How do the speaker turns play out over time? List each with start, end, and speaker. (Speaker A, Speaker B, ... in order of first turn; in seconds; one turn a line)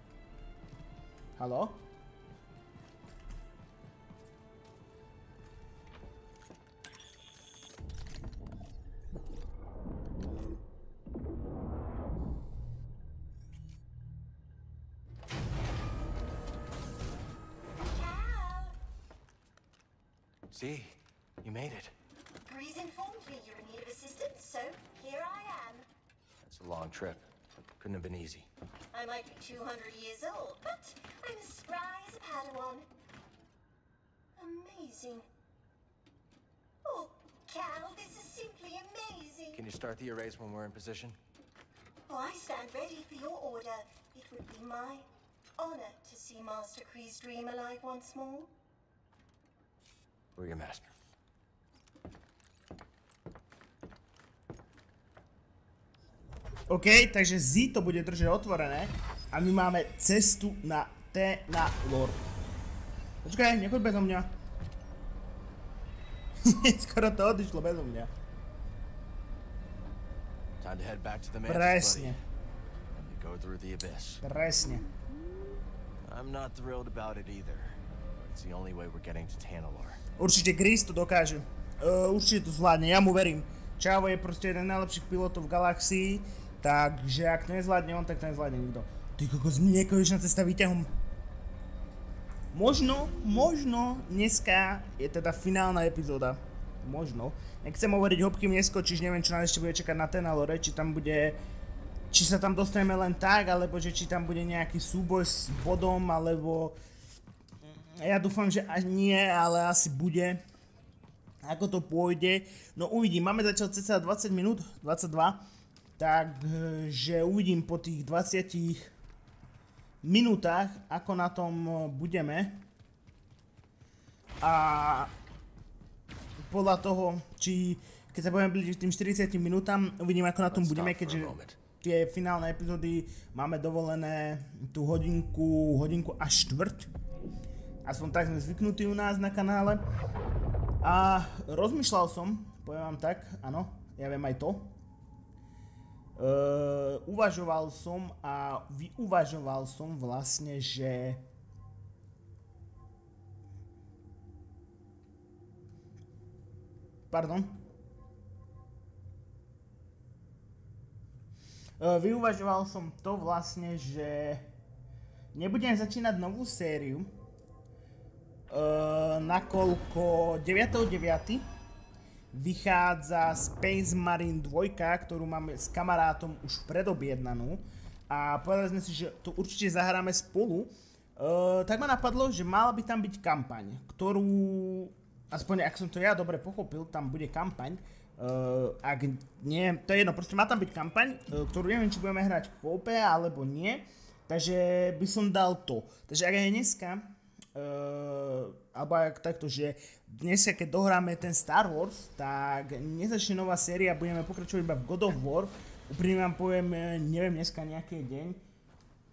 Speaker A: 1.4-1.8
Speaker B: 17.8-18.7
Speaker C: 20.5-21.9
Speaker B: 22.4-25.9
Speaker C: 26.4-27.2
Speaker C: 27.8-28.5
Speaker B: 28.9-32.9
Speaker B: 34.4-35.3
Speaker B: 36.9-39.6
Speaker C: 39.5-41.2
Speaker B: 42.1-45.0
Speaker B: 45.6-48.5
Speaker C: 50.4-50.9
Speaker A: 56.7-62.2
Speaker A: 63.2-64.3
Speaker A: 66.5-68.1
Speaker C: 70.6-72.2
Speaker A: 71.5-72.2
Speaker C: 72.9-74.2
Speaker A: 74.2-74.9
Speaker C: 76.0-80.0
Speaker A: 80.2-90.9
Speaker A: 92.5-101.4
Speaker A: 102.1-106.8
Speaker A: 107.9-110.4
Speaker A: 111.4-115.4
Speaker A: 116.0-118.9
Speaker A: 120.0-122.7
Speaker A: 124.4-125.1
Speaker A: 126.4-136.9
Speaker C: 130.5-131.6
Speaker A: 137.8-139.8
Speaker A: 140.8-144.8
Speaker A: 146.2-151.2
Speaker A: 157.1-157.6
Speaker A: 161.8-164.5
Speaker A: 165.3-167.1
Speaker A: 168.5-171.5
Speaker A: 172.3-208.4